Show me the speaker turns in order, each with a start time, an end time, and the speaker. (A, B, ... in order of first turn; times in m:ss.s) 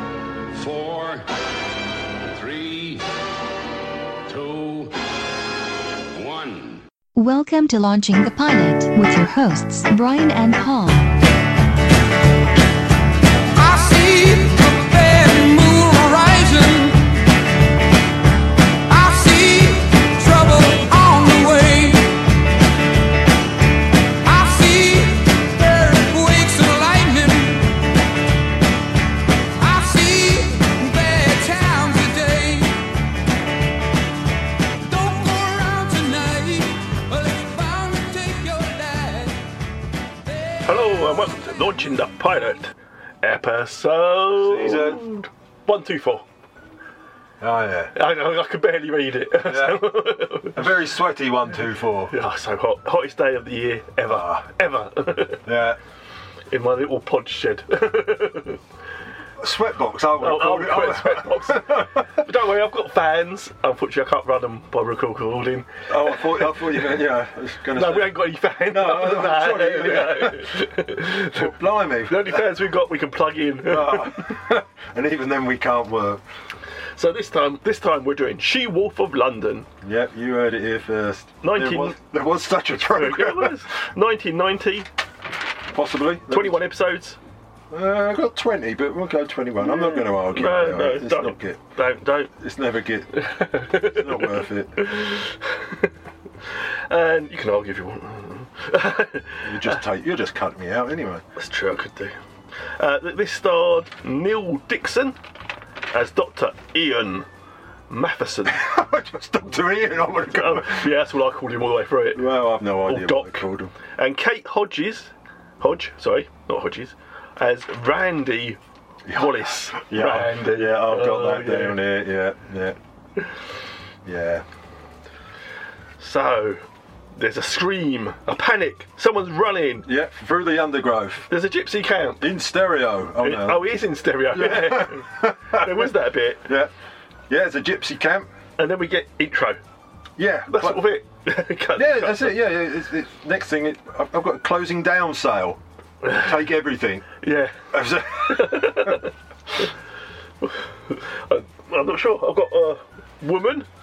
0:00.5-0:01.3 A
0:02.2-0:03.0 A
0:04.3-0:04.9 A
0:06.1-0:06.8 A
0:07.2-0:11.2 B
0:13.6-0:17.2 A
0:18.9-0:22.2 A
0:24.2-0:27.8 A
0:29.6-0:32.9 A
0:34.8-0:39.5 A
0:40.3-0:40.6 A
0:40.7-0:46.2 C
0:44.4-0:45.1 D
0:47.4-0:47.9 D
0:47.9-0:50.7 C
0:49.4-0:49.9 D
0:50.5-0:52.1 D
0:52.1-0:55.5 C
0:54.1-0:54.4 D
0:55.5-0:55.8 D
0:56.5-0:58.6 C
0:59.4-1:02.1 D
1:00.2-1:06.6 C
1:05.9-1:10.7 D
1:07.8-1:11.5 C
1:11.2-1:12.6 D
1:12.1-1:14.4 C
1:13.6-1:16.2 D
1:17.0-1:19.7 C
1:19.8-1:23.6 D
1:21.4-1:22.0 C
1:22.9-1:24.9 C
1:25.7-1:26.6 D
1:26.3-1:27.2 C
1:27.7-1:31.6 D
1:29.6-1:32.3 C
1:32.4-1:34.9 D
1:33.2-1:35.9 C
1:36.9-1:39.8 C
1:39.4-1:41.2 D
1:41.4-1:42.2 C
1:42.8-1:45.2 C
1:45.9-1:47.3 C
1:47.9-1:48.6 C
1:48.5-1:50.9 D
1:50.3-1:52.3 C
1:52.2-1:53.7 D
1:52.8-1:53.4 C
1:54.0-1:58.6 C
1:59.1-2:02.8 D
1:59.1-2:01.8 C
2:04.1-2:04.4 D
2:06.0-2:06.6 C
2:07.2-2:09.9 C
2:09.9-2:11.3 D
2:11.3-2:12.3 C
2:12.2-2:13.7 D
2:13.2-2:16.4 C
2:14.3-2:15.9 D
2:16.5-2:16.7 D
2:17.3-2:18.3 D
2:18.6-2:19.6 C
2:20.2-2:20.9 D
2:20.5-2:22.4 C
2:21.8-2:27.1 D
2:26.0-2:26.3 C
2:27.2-2:29.1 C
2:27.7-2:29.0 D
2:30.4-2:33.7 C